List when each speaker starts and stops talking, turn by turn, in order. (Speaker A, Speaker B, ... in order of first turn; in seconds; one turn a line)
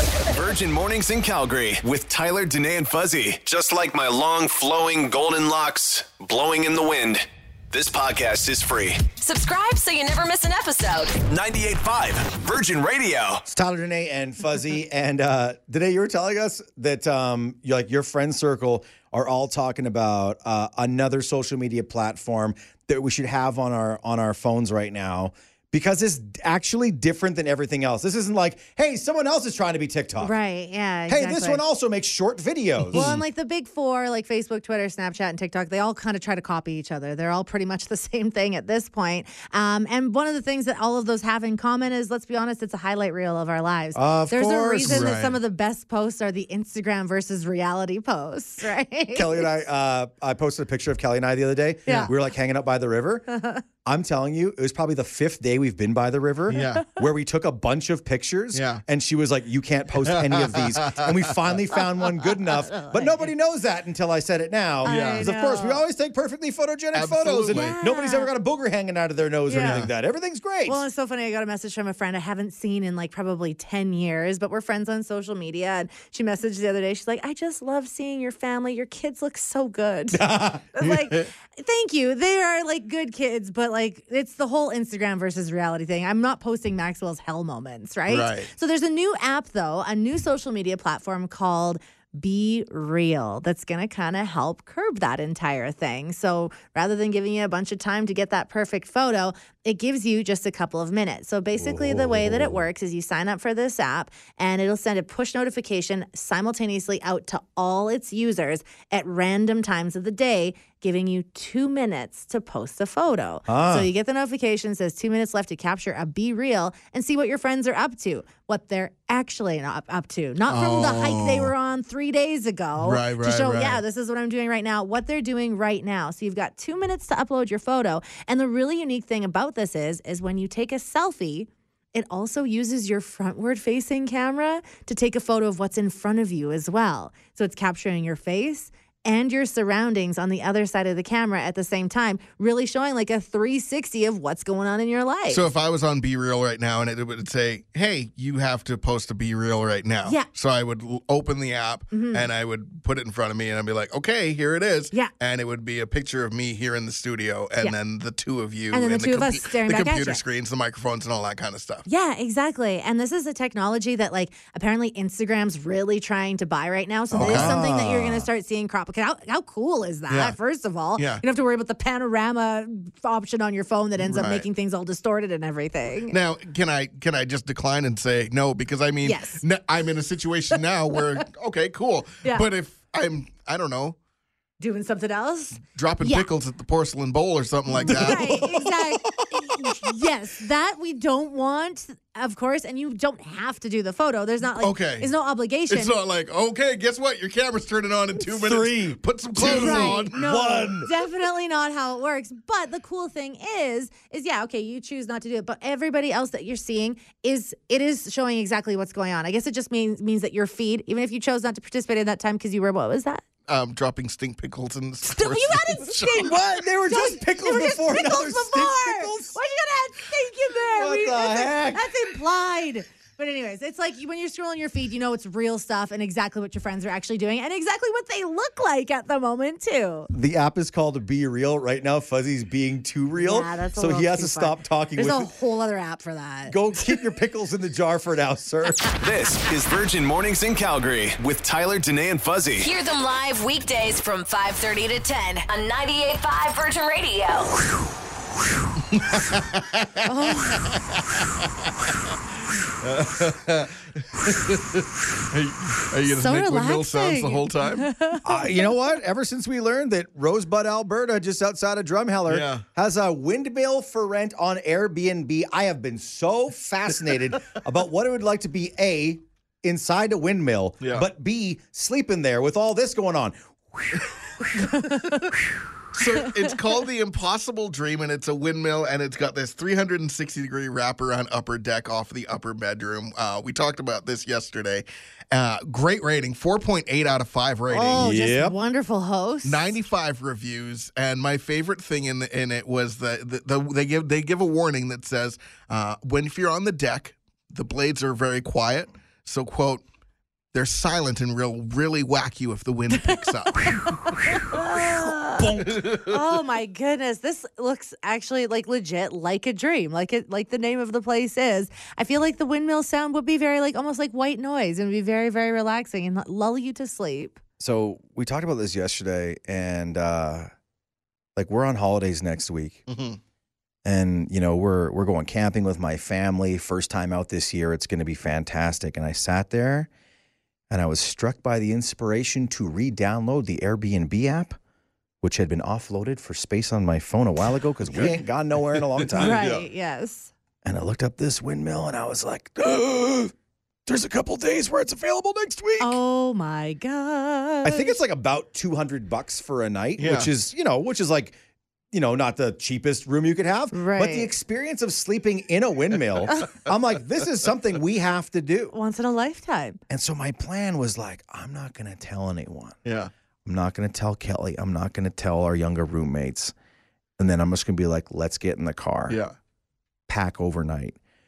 Speaker A: 0.3-9.1
Speaker B: 9.2-11.2
Speaker A: 11.2-13.4
Speaker C: 13.4-30.3
Speaker D: 30.2-31.6
Speaker C: 31.1-33.2
Speaker E: 32.9-33.2
Speaker D: 32.9-49.5
Speaker C: 43.9-45.1
Speaker E: 44.8-45.4
Speaker C: 49.1-53.3
Speaker D: 51.9-52.1
Speaker D: 53.3-53.6
Speaker C: 53.8-70.8
Speaker E: 56.5-56.9
Speaker E: 58.5-58.8
Speaker E: 60.0-61.1
Speaker D: 62.4-63.3
Speaker D: 64.8-65.8
Speaker E: 64.8-65.3
Speaker E: 66.9-67.7
Speaker D: 67.5-68.3
Speaker D: 69.5-69.9
Speaker E: 69.6-69.9
Speaker D: 70.7-145.5
Speaker C: 80.1-80.7
Speaker E: 80.8-81.2
Speaker E: 88.1-88.5
Speaker C: 101.6-102.6
Speaker C: 113.5-113.9
Speaker E: 120.5-121.5
Speaker E: 122.8-123.8
Speaker E: 145.3-161.8
Speaker D: 151.9-152.3
Speaker D: 158.7-160.2
Speaker D: 161.8-176.2
Speaker C: 167.1-168.3
Speaker E: 167.1-167.6
Speaker E: 170.1-170.4
Speaker E: 170.9-171.2
Speaker E: 174.0-174.4
Speaker E: 176.1-183.9
Speaker D: 179.0-179.4
Speaker D: 180.5-181.2
Speaker D: 184.6-186.3
Speaker E: 185.6-188.6
Speaker D: 187.8-195.9
Speaker C: 187.8-189.3
Speaker E: 194.6-195.1
Speaker E: 195.7-200.5
Speaker C: 198.3-200.9
Speaker D: 199.3-213.2
Speaker E: 213.5-216.4
Speaker D: 215.1-230.1
Speaker C: 216.2-219.3
Speaker C: 220.8-221.9
Speaker C: 230.1-235.3
Speaker D: 233.2-236.9
Speaker C: 236.5-238.9
Speaker A: 239.0-242.7
Speaker B: 242.6-247.6
Speaker E: 248.9-251.1
Speaker D: 250.0-250.7
Speaker E: 252.8-257.9
Speaker D: 256.1-258.7
Speaker C: 258.2-274.0
Speaker E: 262.3-262.6
Speaker E: 275.9-288.0
Speaker D: 287.7-289.7
Speaker C: 287.9-288.6
Speaker E: 289.4-299.8
Speaker E: 300.5-304.0
Speaker D: 303.0-317.4
Speaker C: 305.3-306.0
Speaker E: 305.8-306.1
Speaker C: 317.6-320.5
Speaker C: 321.4-322.8
Speaker E: 322.9-323.2
Speaker C: 323.8-329.9
Speaker C: 330.7-334.6
Speaker C: 335.2-339.4
Speaker E: 337.8-339.6
Speaker D: 339.1-340.3
Speaker C: 340.6-343.3
Speaker C: 343.9-346.0
Speaker D: 345.8-348.0
Speaker C: 347.6-351.4
Speaker E: 350.0-350.3
Speaker C: 351.9-358.7
Speaker D: 353.7-354.3
Speaker D: 358.7-359.8
Speaker C: 359.9-362.8
Speaker E: 362.9-363.1
Speaker C: 363.4-366.5
Speaker C: 367.2-369.2
Speaker C: 370.1-371.0